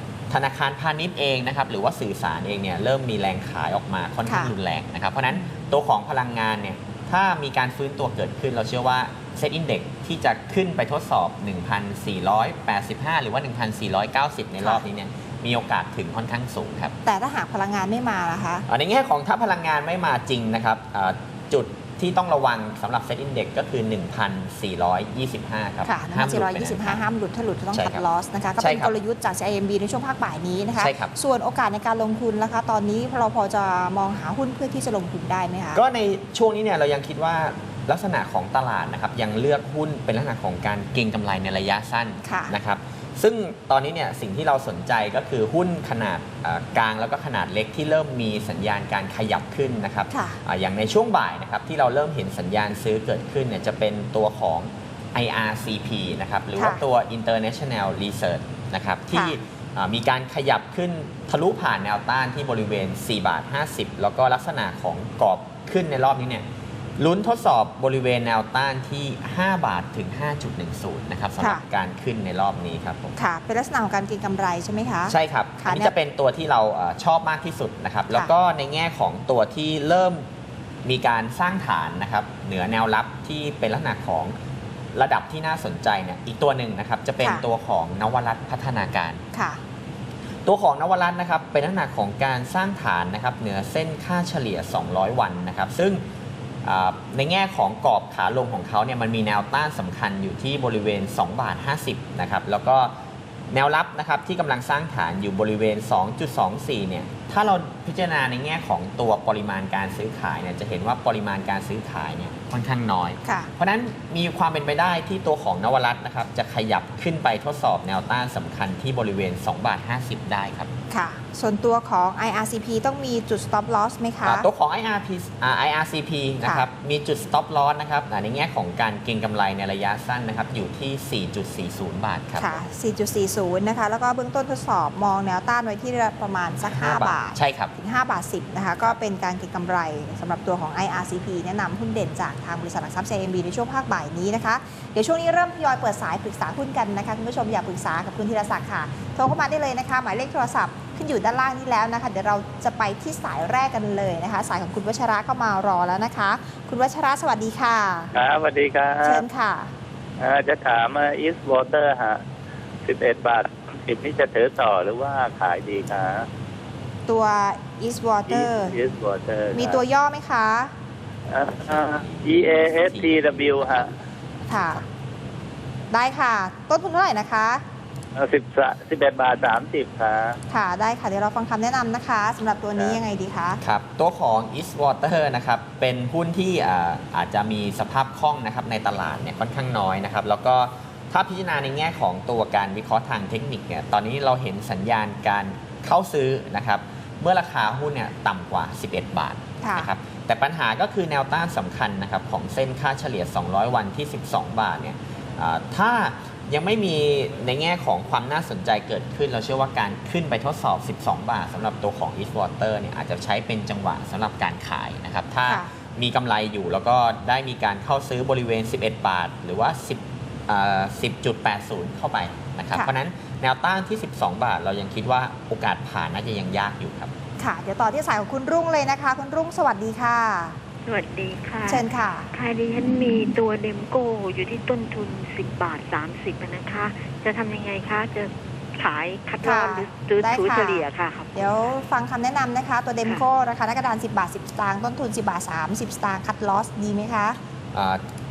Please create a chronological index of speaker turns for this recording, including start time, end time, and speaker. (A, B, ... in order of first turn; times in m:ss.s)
0:00.3-0:16.9 A
0:04.3-0:04.5 B
0:05.3-0:05.6 B
0:17.0-0:18.6 B
0:18.7-0:27.0 A
0:25.8-0:35.8 B
0:27.7-0:28.0 A
0:28.6-0:28.9 A
0:30.8-0:31.1 A
0:35.8-1:06.4 A
0:42.2-0:42.6 B
0:50.1-0:50.4 B
0:56.6-0:56.8 B
1:07.0-1:13.1 A
1:13.2-1:15.9 B
1:15.1-1:20.2 A
1:20.8-1:24.3 A
1:25.0-1:29.2 A
1:29.3-1:29.6 B
1:30.4-1:36.0 A
1:36.6-1:42.9 A
1:43.5-2:00.7 A
2:00.9-2:04.5 B
2:04.2-2:12.6 A
2:12.4-2:38.1 B
2:16.7-2:17.7 A
2:38.1-2:39.2 C
2:39.0-2:39.7 B
2:40.2-2:42.2 C
2:42.9-2:46.2 C
2:47.1-2:48.8 B
2:48.3-2:49.8 C
2:49.5-2:50.7 B
2:51.3-2:53.9 C
2:51.6-2:53.9 A
2:54.4-2:54.8 A
2:54.5-2:54.8 B
2:55.9-2:57.6 B
2:58.2-3:00.4 C
3:00.5-3:03.6 B
3:03.6-3:47.1 A
3:19.6-3:19.9 B
3:47.4-3:50.6 B
3:50.8-4:01.5 D
3:51.7-3:52.3 B
3:59.4-4:07.4 B
4:07.7-4:08.0 A